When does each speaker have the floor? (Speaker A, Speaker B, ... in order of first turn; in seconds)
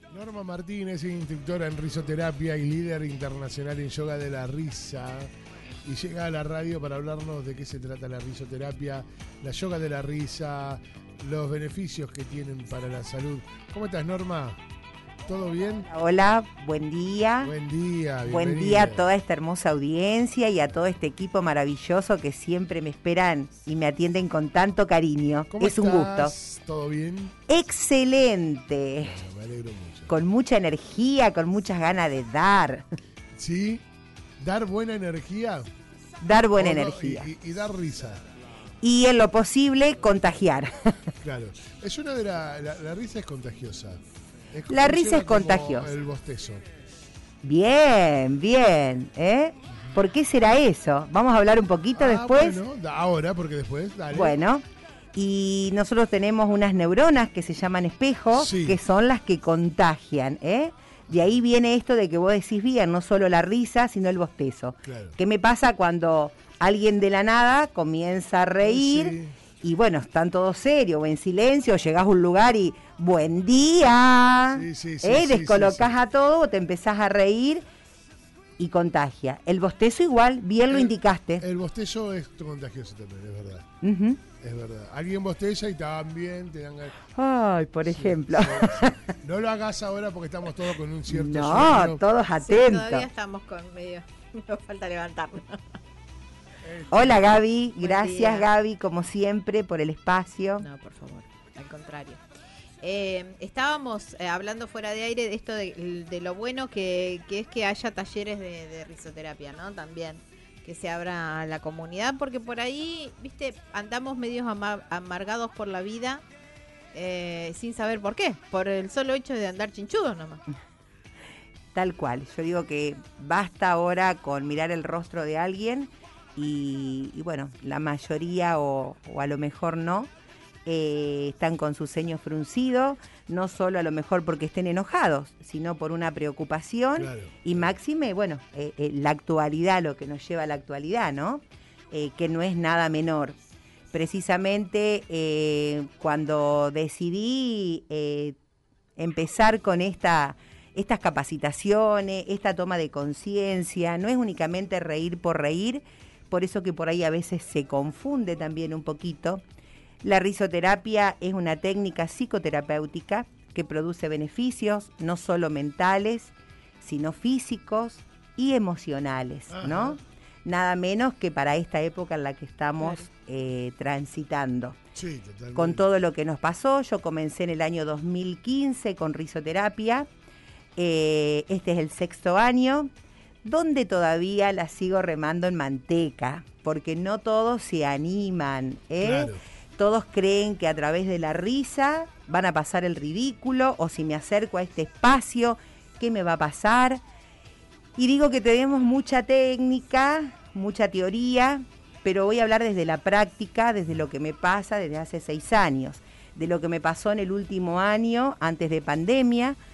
Speaker A: 0.1-5.3, 5.8-14.6, 15.2-15.9, 17.4-19.1, 25.5-27.4, 29.0-30.1, 33.3-33.8, 34.4-35.7, 36.5-38.3, 41.2-46.6, 49.7-50.0, 52.0-54.4, 58.3-58.8, 64.8-65.2, 68.6-69.4, 74.5-76.0, 80.7-83.7, 84.4-87.0, 87.8-92.0, 96.6-97.2, 137.0-137.7, 169.5-170.0, 174.9-175.9, 189.0-189.4
Speaker B: 15.9-17.5, 18.3-26.3, 27.5-29.2, 30.1-32.9, 36.2-37.3, 38.8-41.1, 44.7-46.0, 47.4-52.6, 54.1-77.7, 78.6-81.5, 83.8-84.2, 87.1-89.2, 91.1-93.1, 96.9-100.7, 121.7-130.1, 130.7-143.4, 143.9-148.4, 149.0-159.4, 160.0-174.8, 175.5-180.1, 180.8-182.9, 183.4-197.0, 198.0-209.6
Speaker C: 92.4-95.8, 97.8-98.5, 100.6-102.2, 102.8-116.2, 116.9-120.4